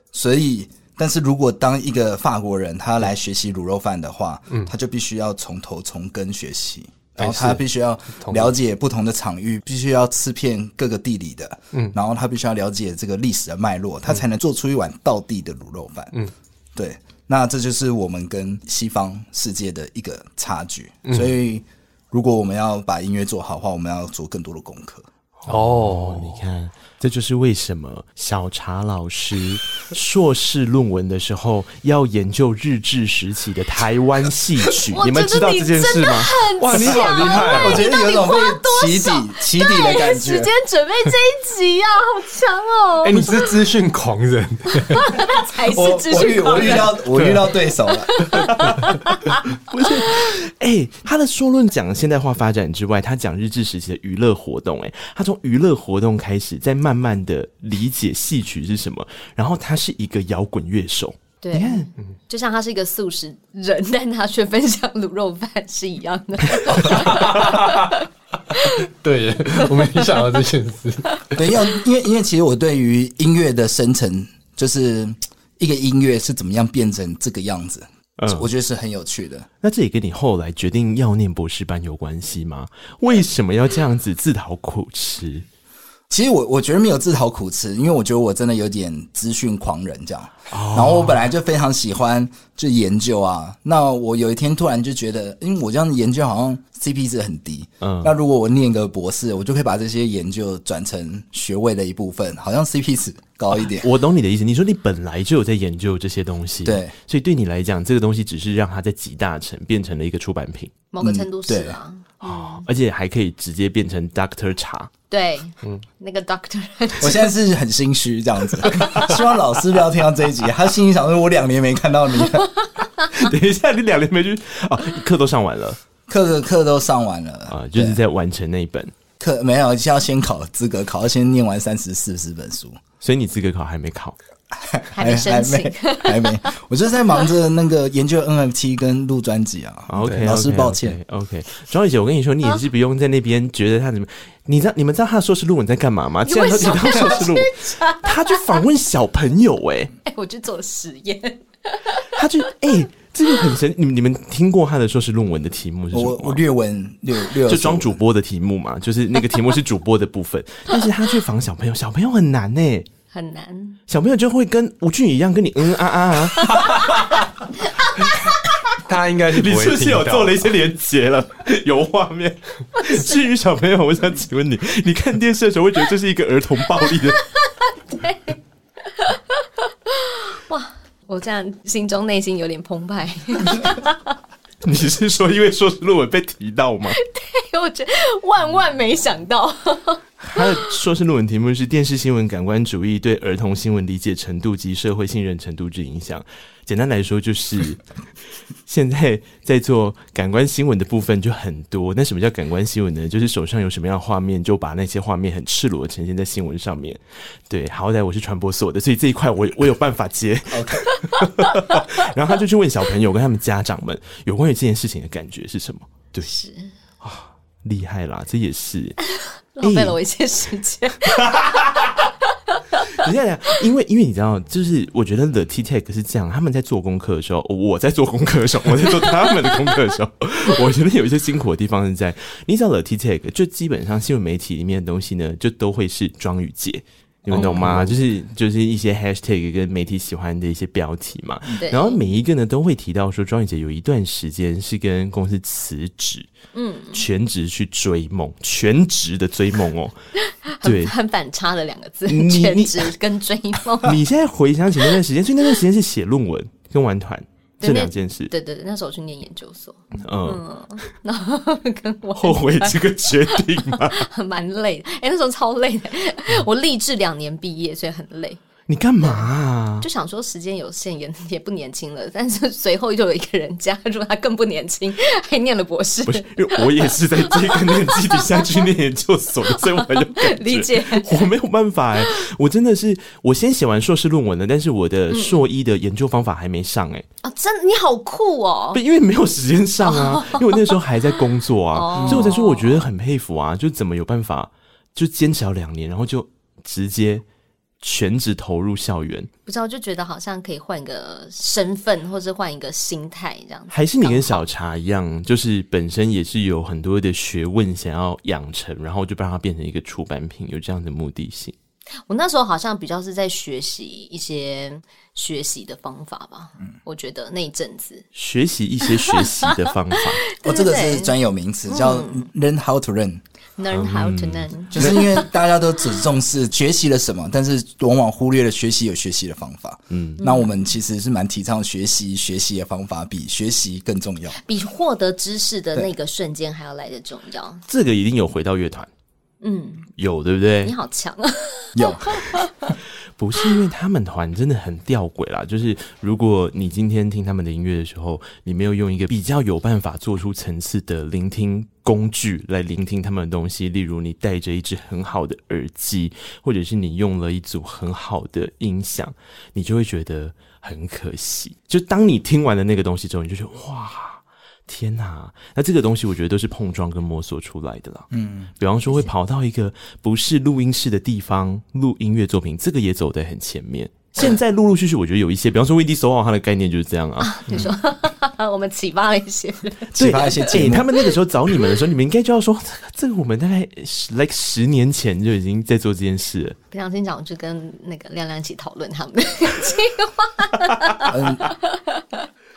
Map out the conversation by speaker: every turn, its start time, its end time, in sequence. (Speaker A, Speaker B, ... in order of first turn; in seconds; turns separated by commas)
Speaker A: 0.1-16.1, Speaker B: 7.2-7.6, Speaker B: 8.2-8.5, Speaker A: 16.7-25.1, Speaker B: 21.1-21.3, Speaker C: 25.4-36.4, Speaker B: 25.5-26.4, Speaker D: 34.9-43.5, Speaker B: 36.6-37.9, Speaker A: 37.1-40.5, Speaker B: 43.0-45.3, Speaker D: 44.7-47.0, Speaker A: 45.7-48.3, Speaker B: 46.2-47.4, Speaker D: 47.9-49.2, Speaker C: 49.7-61.9, Speaker D: 61.4-68.8, Speaker B: 66.7-67.9, Speaker B: 68.5-71.5, Speaker A: 71.3-79.5, Speaker C: 78.2-78.5, Speaker C: 79.6-85.5, Speaker A: 86.1-103.9, Speaker C: 90.5-91.3, Speaker C: 97.8-98.1, Speaker C: 103.5-110.7, Speaker A: 106.6-106.9, Speaker D: 110.9-112.7, Speaker A: 111.0-111.8, Speaker C: 112.2-114.9, Speaker D: 115.1-117.3, Speaker A: 117.0-122.5, Speaker C: 123.1-125.8, Speaker A: 126.1-128.0, Speaker C: 127.5-128.9, Speaker A: 129.2-132.8, Speaker C: 133.0-134.2, Speaker A: 134.5-141.0, Speaker D: 134.9-136.5, Speaker C: 139.9-149.9, Speaker D: 146.2-148.6, Speaker D: 150.1-152.1, Speaker C: 152.1-156.4, Speaker A: 155.9-158.0, Speaker C: 157.4-162.8, Speaker D: 163.1-163.8, Speaker C: 163.9-167.1, Speaker B: 168.8-170.5, Speaker C: 169.3-177.2, Speaker D: 177.2-184.1, Speaker C: 184.6-187.0, Speaker D: 186.9-190.6, Speaker C: 190.2-197.8, Speaker C: 198.7-216.3, Speaker A: 210.5-210.9, Speaker D: 216.2-216.7, Speaker C: 217.0-219.0, Speaker D: 219.1-222.0, Speaker C: 219.6-219.9, Speaker C: 221.1-222.0, Speaker D: 222.5-222.9, Speaker C: 222.9-246.3, Speaker D: 229.1-229.7, Speaker B: 237.3-237.9, Speaker D: 241.6-242.0, Speaker D: 246.5-247.1, Speaker C: 246.9-249.9, Speaker D: 250.3-254.0, Speaker C: 250.6-250.9, Speaker C: 252.1-252.9, Speaker C: 253.8-258.3, Speaker D: 257.6-268.4, Speaker C: 260.0-260.4, Speaker C: 262.1-264.0, Speaker C: 268.7-269.9, Speaker D: 269.0-269.2, Speaker D: 269.8-278.7, Speaker C: 276.1-287.0, Speaker D: 279.4-281.3, Speaker D: 285.1-285.4, Speaker D: 287.2-288.8, Speaker C: 288.7-297.2, Speaker D: 289.8-290.7, Speaker D: 291.7-292.8, Speaker C: 297.8-299.3, Speaker D: 299.5-304.4, Speaker C: 303.7-311.5, Speaker D: 312.1-318.1, Speaker C: 318.1-320.2, Speaker D: 319.1-319.5, Speaker D: 320.3-321.1, Speaker A: 320.4-323.2, Speaker D: 321.7-322.3, Speaker D: 323.6-325.2, Speaker C: 323.7-324.9, Speaker A: 324.7-334.4, Speaker C: 329.9-330.2, Speaker D: 330.2-330.5, Speaker D: 334.4-337.6, Speaker C: 337.7-338.9, Speaker D: 339.4-339.9, Speaker C: 340.0-340.7, Speaker D: 340.6-342.7, Speaker A: 341.7-342.5, Speaker C: 343.2-377.6, Speaker A: 368.1-368.5, Speaker D: 377.2-380.6, Speaker A: 379.9-380.9, Speaker C: 379.9-386.6, Speaker D: 386.7-392.2, Speaker A: 391.0-391.5